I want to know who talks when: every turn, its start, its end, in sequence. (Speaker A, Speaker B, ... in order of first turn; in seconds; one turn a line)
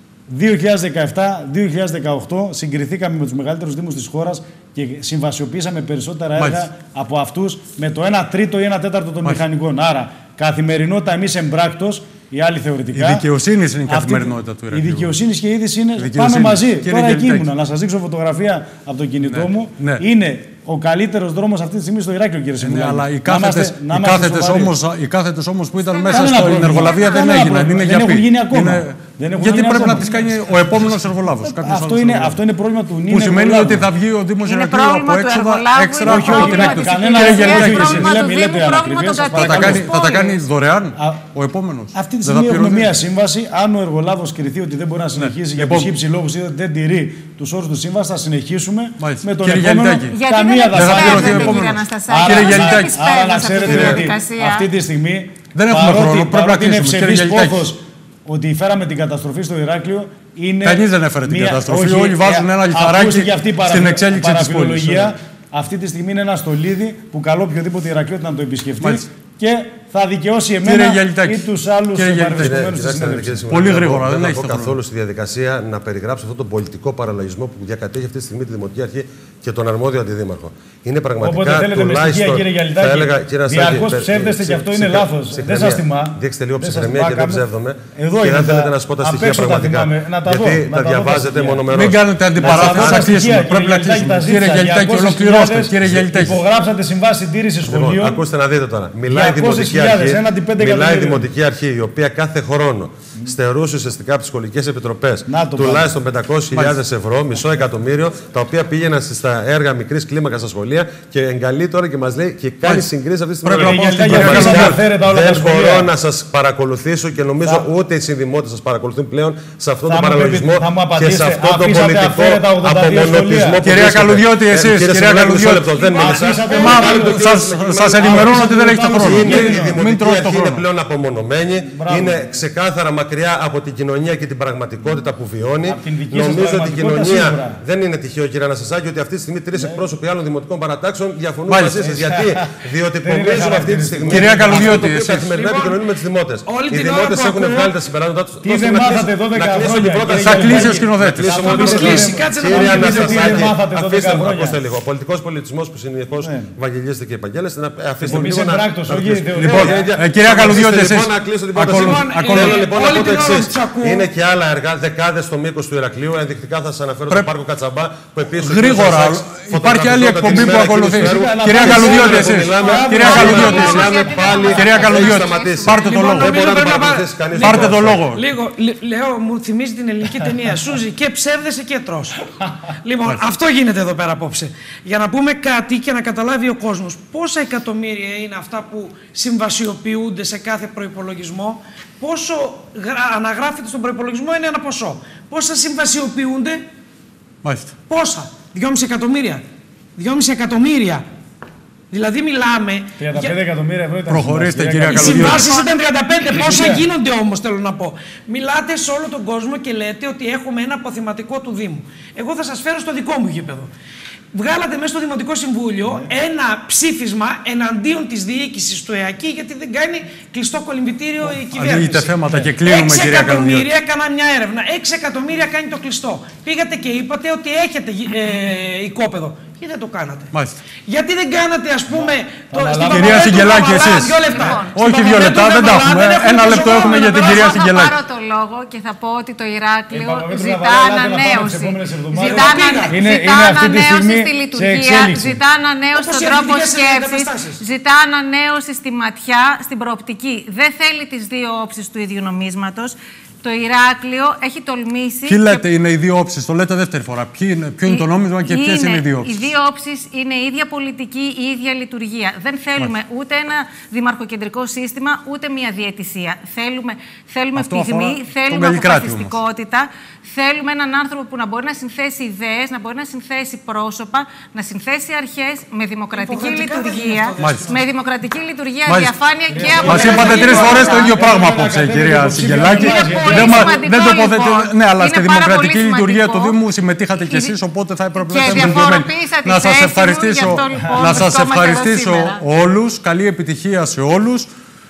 Speaker A: 0.3-13.2
Speaker B: 6.4-6.7
Speaker B: 12.9-15.2
Speaker A: 13.8-24.8
Speaker B: 16.0-17.5
Speaker B: 19.3-20.0
Speaker B: 22.6-32.4
Speaker C: 25.8-27.6
Speaker A: 26.1-33.9
Speaker B: 33.1-38.2
Speaker C: 34.4-40.4
Speaker A: 36.0-39.9
Speaker B: 39.3-42.9
Speaker A: 41.0-41.2
Speaker A: 41.9-73.4
Speaker B: 45.2-45.9
Speaker B: 49.0-50.1
Speaker C: 50.1-54.7
Speaker B: 50.7-53.0
Speaker B: 53.6-54.1
Speaker B: 55.5-57.7
Speaker B: 60.6-65.1
Speaker B: 68.8-69.0
Speaker B: 70.6-72.6
Speaker D: 72.3-93.2
Speaker B: 73.5-74.8
Speaker A: 81.2-87.4
Speaker A: 87.9-91.7
Speaker B: 91.7-96.4
Speaker A: 92.3-98.2
Speaker D: 97.7-178.0
Speaker A: 99.1-101.3
Speaker A: 105.3-106.0
Speaker B: 106.5-106.8
Speaker B: 112.6-112.9
Speaker B: 113.4-114.8
Speaker A: 113.6-115.9
Speaker A: 117.4-117.7
Speaker A: 119.8-123.6
Speaker B: 123.6-130.6
Speaker A: 125.9-127.3
Speaker A: 128.0-129.8
Speaker A: 131.6-132.4
Speaker A: 135.6-137.6
Speaker A: 139.5-139.8
Speaker B: 141.5-141.8
Speaker A: 141.8-144.8
Speaker B: 144.1-145.3
Speaker E: 145.3-145.8
Speaker E: 146.4-147.7
Speaker A: 148.4-154.6
Speaker B: 150.1-151.7
Speaker E: 151.3-153.5
Speaker A: 156.2-156.5
Speaker A: 158.0-159.9
Speaker B: 159.3-162.7
Speaker E: 161.7-164.1
Speaker B: 168.3-176.4
Speaker A: 170.3-174.6
Speaker C: 172.6-175.7
Speaker E: 175.7-196.6
Speaker B: 177.3-178.2
Speaker B: 197.4-197.8
Speaker E: 197.9-199.4
Speaker E: 199.9-201.0
Speaker E: 201.9-203.3
Speaker A: 203.0-205.4
Speaker B: 204.1-205.5
Speaker E: 204.9-213.7
Speaker A: 206.3-206.9
Speaker E: 214.3-237.6
Speaker B: 221.5-223.7
Speaker B: 230.3-230.6
Speaker A: 231.9-233.6
Speaker B: 232.9-238.0
Speaker C: 234.2-234.8
Speaker C: 236.4-255.6
Speaker A: 239.9-245.4
Speaker E: 242.2-242.9
Speaker E: 245.9-247.6
Speaker B: 255.3-259.4
Speaker C: 257.8-281.1
Speaker B: 267.5-269.4
Speaker E: 276.1-277.8
Speaker B: 277.4-277.7
Speaker B: 278.9-279.1
Speaker A: 279.5-283.8
Speaker B: 279.8-294.5
Speaker E: 280.0-280.5
Speaker C: 282.6-286.6
Speaker C: 287.1-287.5
Speaker C: 288.2-292.4
Speaker A: 288.4-288.7